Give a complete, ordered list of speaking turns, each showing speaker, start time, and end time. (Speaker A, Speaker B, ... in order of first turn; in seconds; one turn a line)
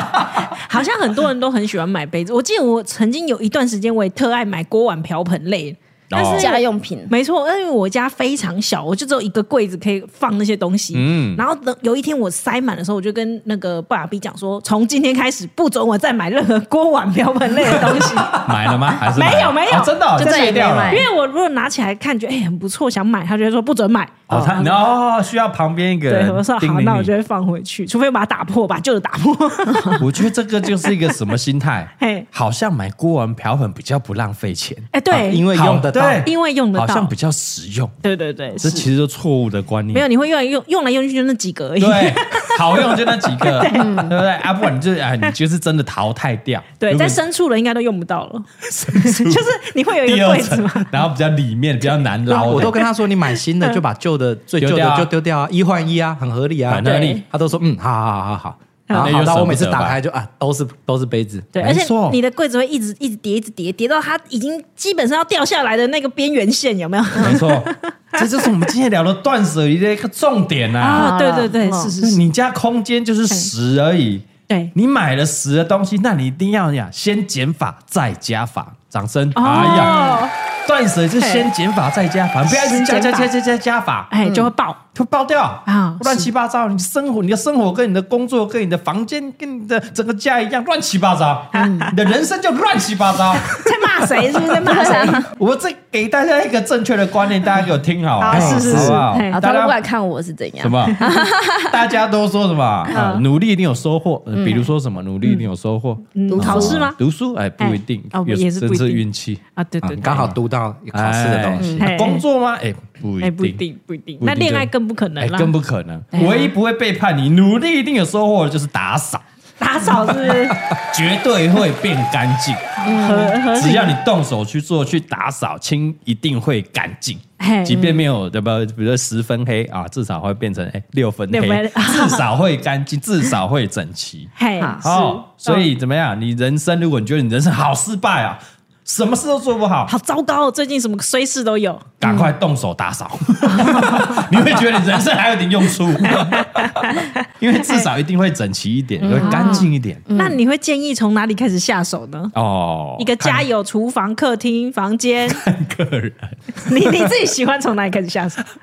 Speaker A: 0.4-18.5
Speaker B: 6.1-6.5
Speaker C: 6.3-7.1
Speaker B: 10.9-11.4
Speaker B: 18.3-21.1
Speaker A: 19.1-24.8
Speaker C: 20.2-21.1
Speaker B: 24.3-27.1
Speaker A: 26.1-30.1
Speaker B: 30.0-34.9
Speaker A: 32.0-32.3
Speaker A: 34.9-35.5
Speaker D: 35.1-36.3
Speaker B: 35.5-37.9
Speaker A: 36.2-37.1
Speaker A: 38.0-38.9
Speaker B: 38.6-40.1
Speaker A: 39.9-44.1
Speaker B: 41.8-47.2
Speaker C: 43.7-44.2
Speaker A: 46.8-51.0
Speaker B: 48.7-49.5
Speaker B: 50.0-52.8
Speaker D: 52.3-61.5
Speaker B: 54.6-55.1
Speaker B: 56.7-57.2
Speaker A: 56.8-57.2
Speaker B: 58.9-60.0
Speaker A: 61.5-68.5
Speaker B: 61.6-62.2
Speaker B: 67.2-71.1
Speaker A: 70.8-72.2
Speaker C: 70.9-71.9
Speaker B: 72.0-80.0
Speaker A: 79.4-80.3
Speaker C: 79.6-80.2
Speaker B: 80.7-84.1
Speaker A: 81.2-81.5
Speaker A: 82.5-83.3
Speaker A: 84.1-84.8
Speaker C: 84.2-84.5
Speaker B: 85.0-93.7
Speaker A: 85.7-86.2
Speaker A: 91.5-91.9
Speaker C: 91.5-91.9
Speaker A: 93.5-95.2
Speaker C: 94.6-95.3
Speaker B: 94.6-99.8
Speaker A: 98.2-99.4
Speaker D: 98.3-99.1
Speaker C: 99.3-101.8
Speaker B: 100.6-109.4
Speaker A: 102.9-103.2
Speaker C: 104.3-104.7
Speaker A: 106.1-107.0
Speaker C: 106.3-106.8
Speaker A: 107.6-109.0
Speaker A: 109.6-110.3
Speaker D: 109.8-111.8
Speaker B: 110.1-110.3
Speaker B: 110.9-113.6
Speaker A: 111.8-112.2
Speaker A: 113.2-115.5
Speaker B: 114.2-119.2
Speaker A: 116.1-116.5
Speaker A: 119.6-120.6
Speaker B: 119.8-122.8
Speaker A: 122.8-124.0
Speaker C: 122.8-123.4
Speaker B: 123.4-139.9
Speaker A: 127.4-128.0
Speaker A: 131.3-132.2
Speaker A: 134.4-135.7
Speaker C: 134.6-134.9
Speaker A: 139.9-141.8
Speaker B: 142.0-146.7
Speaker C: 142.0-142.3
Speaker A: 143.5-144.2
Speaker A: 146.1-147.1
Speaker B: 147.3-150.0
Speaker C: 149.0-150.4
Speaker A: 149.2-152.3
Speaker B: 152.3-153.5
Speaker A: 153.0-155.4
Speaker B: 155.3-157.1
Speaker A: 156.6-158.4